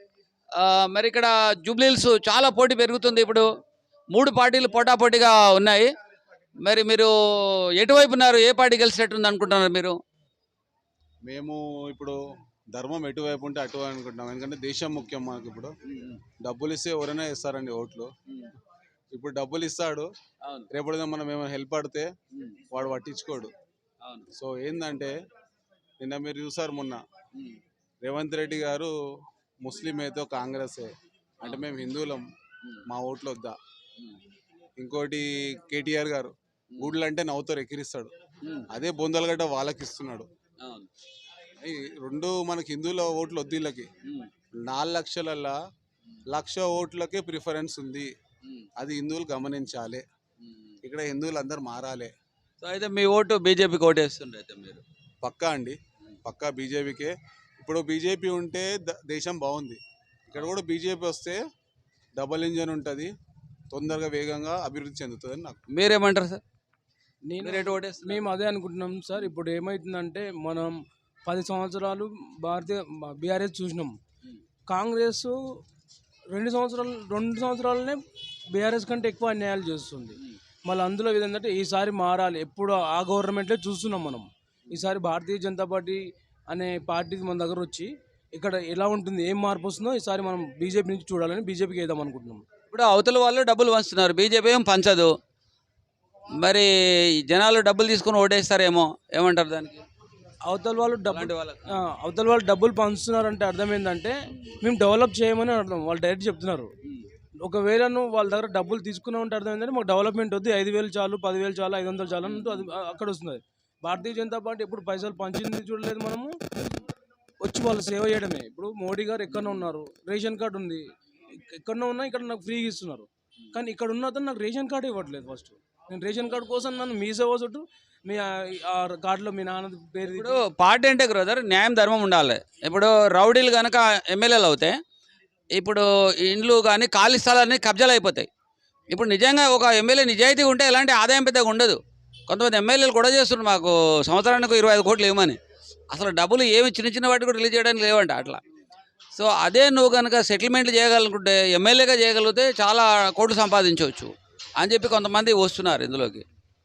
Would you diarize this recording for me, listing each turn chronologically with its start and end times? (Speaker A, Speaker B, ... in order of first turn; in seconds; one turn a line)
Speaker A: 0.6-3.5
Speaker A: 4.1-5.9
Speaker A: 6.6-10.0
Speaker B: 11.2-12.2
Speaker B: 12.7-15.7
Speaker A: 15.9-16.2
Speaker B: 16.4-18.1
Speaker B: 19.1-20.1
Speaker A: 20.4-20.7
Speaker B: 20.7-22.1
Speaker A: 22.3-22.6
Speaker B: 22.7-23.5
Speaker A: 24.0-24.3
Speaker B: 24.3-25.2
Speaker B: 26.0-27.0
Speaker B: 28.0-28.9
Speaker B: 29.6-32.3
Speaker B: 32.9-33.6
Speaker B: 34.8-38.1
Speaker A: 36.7-37.0
Speaker A: 38.4-38.7
Speaker B: 38.7-40.3
Speaker A: 40.6-40.9
Speaker B: 41.6-43.9
Speaker B: 44.6-45.6
Speaker B: 46.3-48.1
Speaker B: 48.8-50.0
Speaker A: 50.4-50.7
Speaker B: 50.8-52.1
Speaker A: 52.6-54.8
Speaker B: 55.2-61.4
Speaker B: 62.1-63.1
Speaker B: 63.7-65.6
Speaker A: 65.7-66.4
Speaker C: 67.3-74.0
Speaker A: 67.4-68.2
Speaker C: 74.7-75.4
Speaker C: 76.3-92.4
Speaker A: 92.7-95.1
Speaker A: 96.4-99.8
Speaker C: 100.5-106.7
Speaker A: 101.1-101.7
Speaker C: 107.4-116.4
Speaker A: 112.2-112.7
Speaker C: 117.4-130.4
Speaker A: 130.0-134.8
Speaker A: 135.5-138.3
Speaker A: 138.9-145.4
Speaker A: 145.9-148.4
Speaker A: 149.1-156.2